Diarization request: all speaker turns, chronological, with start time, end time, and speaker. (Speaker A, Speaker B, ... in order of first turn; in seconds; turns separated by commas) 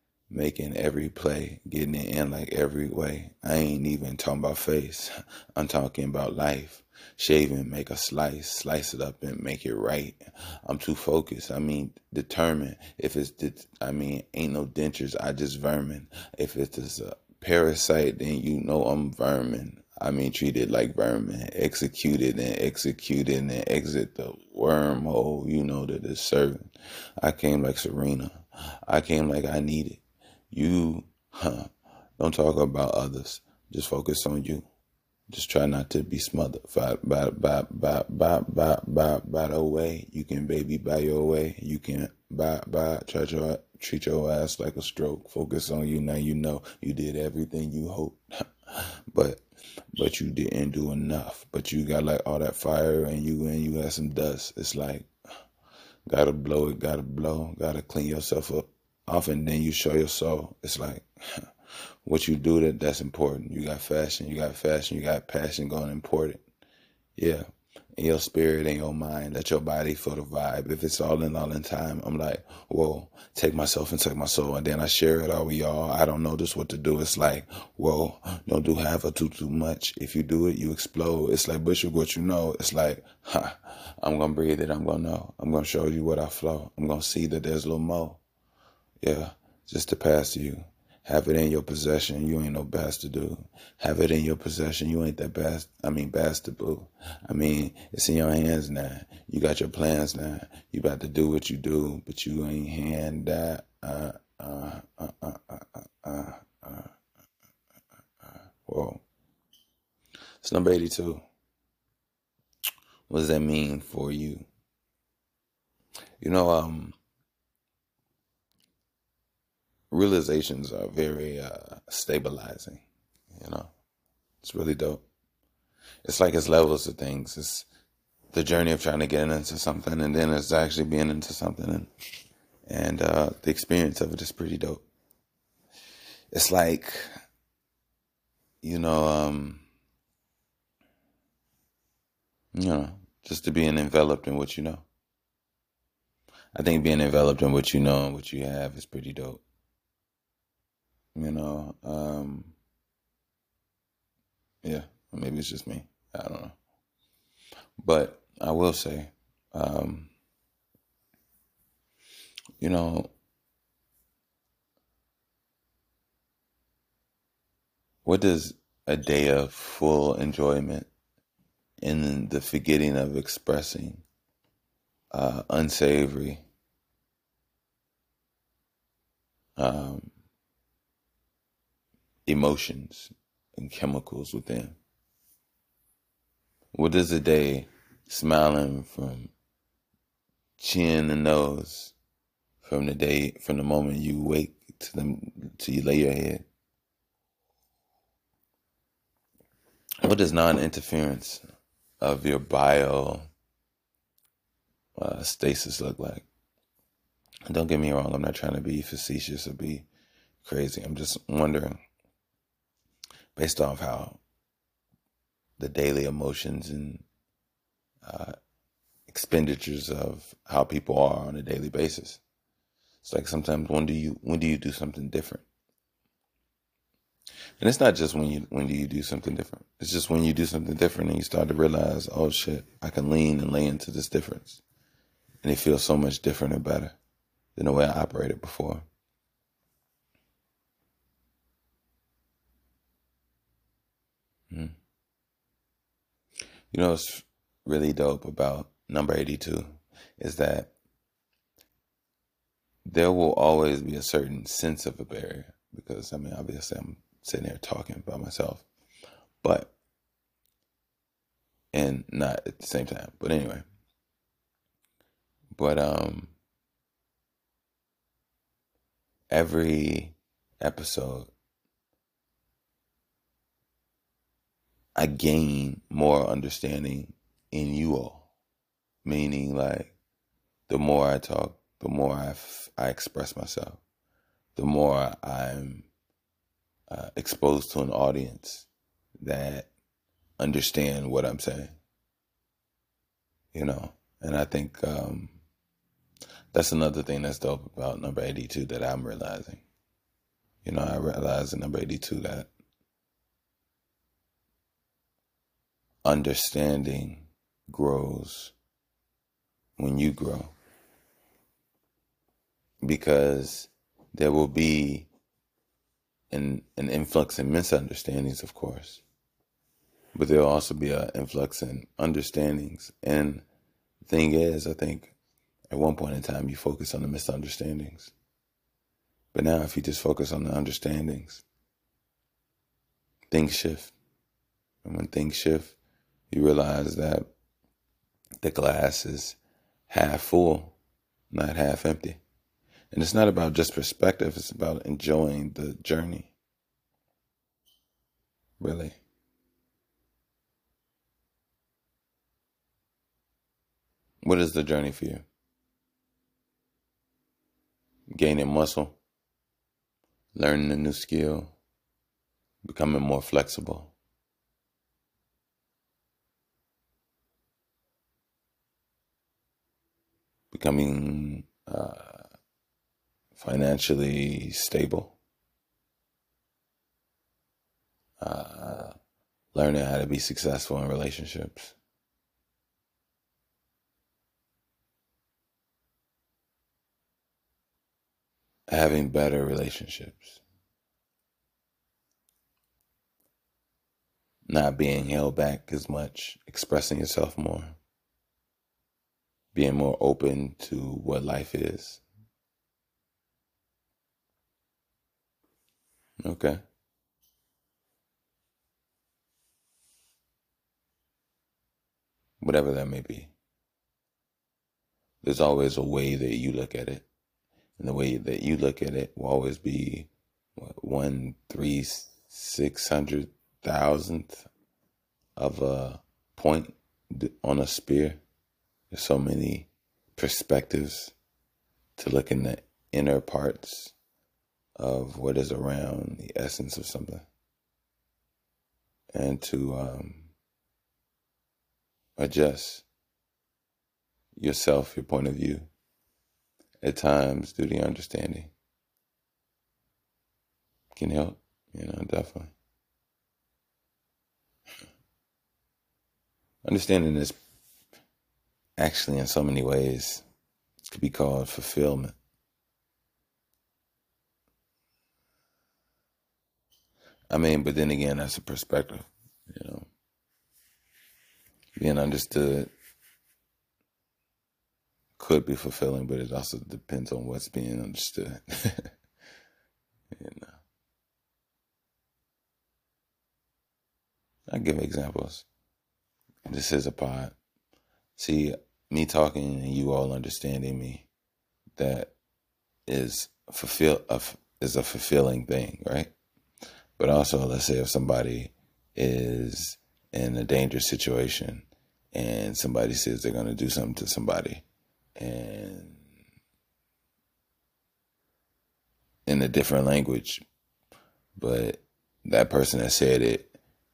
Speaker A: 0.3-26.7, Speaker A: 27.2-34.7, Speaker A: 35.3-49.4, Speaker A: 50.0-55.1, Speaker A: 56.1-61.5, Speaker A: 62.0-66.4, Speaker A: 67.2-67.5, Speaker A: 68.0-88.2, Speaker A: 89.0-106.9, Speaker A: 108.2-109.0, Speaker A: 110.4-111.2, Speaker A: 113.1-114.5, Speaker A: 116.2-117.0, Speaker A: 119.9-123.7, Speaker A: 124.4-125.0, Speaker A: 126.0-127.7, Speaker A: 128.3-131.9, Speaker A: 132.7-134.8, Speaker A: 136.3-137.0, Speaker A: 138.6-139.7, Speaker A: 142.5-144.9, Speaker A: 146.6-149.4, Speaker A: 151.2-152.6, Speaker A: 154.6-156.6, Speaker A: 157.8-160.1, Speaker A: 162.6-163.1, Speaker A: 168.1-170.9, Speaker A: 171.8-174.0, Speaker A: 175.1-176.4, Speaker A: 179.6-180.1, Speaker A: 182.2-184.8, Speaker A: 186.7-189.3, Speaker A: 190.6-191.9, Speaker A: 192.6-196.4, Speaker A: 200.0-201.4, Speaker A: 202.0-203.3, Speaker A: 205.0-206.2, Speaker A: 207.5-209.9, Speaker A: 210.4-211.8, Speaker A: 213.4-214.2, Speaker A: 215.6-217.1, Speaker A: 218.0-218.3, Speaker A: 219.1-222.2, Speaker A: 223.0-225.4, Speaker A: 227.6-234.6, Speaker A: 235.4-237.0, Speaker A: 237.6-238.9, Speaker A: 246.7-250.7, Speaker A: 252.9-258.7, Speaker A: 259.4-259.8, Speaker A: 261.7-263.7, Speaker A: 265.5-266.3, Speaker A: 269.3-271.3, Speaker A: 275.0-278.3, Speaker A: 279.0-279.9, Speaker A: 280.7-283.8, Speaker A: 284.6-285.9, Speaker A: 286.9-288.7, Speaker A: 289.2-289.7, Speaker A: 290.4-291.8, Speaker A: 293.5-295.4, Speaker A: 296.5-299.6, Speaker A: 300.6-302.5, Speaker A: 306.0-308.5, Speaker A: 309.8-310.5, Speaker A: 312.8-315.1, Speaker A: 316.3-319.0, Speaker A: 320.1-323.4, Speaker A: 324.0-325.1, Speaker A: 325.7-328.1, Speaker A: 329.3-331.4, Speaker A: 333.3-333.9, Speaker A: 334.8-335.8, Speaker A: 336.3-337.3, Speaker A: 338.4-339.4, Speaker A: 339.9-340.8, Speaker A: 341.3-342.2, Speaker A: 342.9-346.3, Speaker A: 348.6-349.0, Speaker A: 354.2-355.2, Speaker A: 358.1-359.0, Speaker A: 360.4-361.5, Speaker A: 362.7-363.9, Speaker A: 370.5-372.2, Speaker A: 373.4-375.2, Speaker A: 378.2-378.9, Speaker A: 379.5-381.8, Speaker A: 388.7-390.4, Speaker A: 394.5-397.8, Speaker A: 399.5-402.0, Speaker A: 406.2-406.6, Speaker A: 412.4-413.3, Speaker A: 415.2-417.1, Speaker A: 417.8-424.5, Speaker A: 425.4-428.2, Speaker A: 428.9-431.1, Speaker A: 432.0-433.9, Speaker A: 434.8-437.2, Speaker A: 439.1-440.3, Speaker A: 442.2-442.9, Speaker A: 444.4-445.7, Speaker A: 446.8-448.5, Speaker A: 450.9-452.5, Speaker A: 456.6-457.4, Speaker A: 458.8-460.2, Speaker A: 460.9-462.2, Speaker A: 467.3-469.9, Speaker A: 471.8-472.7, Speaker A: 475.2-478.9, Speaker A: 480.1-480.6, Speaker A: 484.5-485.5, Speaker A: 486.4-487.4, Speaker A: 488.2-491.1, Speaker A: 491.8-492.1, Speaker A: 492.9-496.1, Speaker A: 497.0-504.6, Speaker A: 505.2-506.0, Speaker A: 509.3-510.4, Speaker A: 511.4-513.5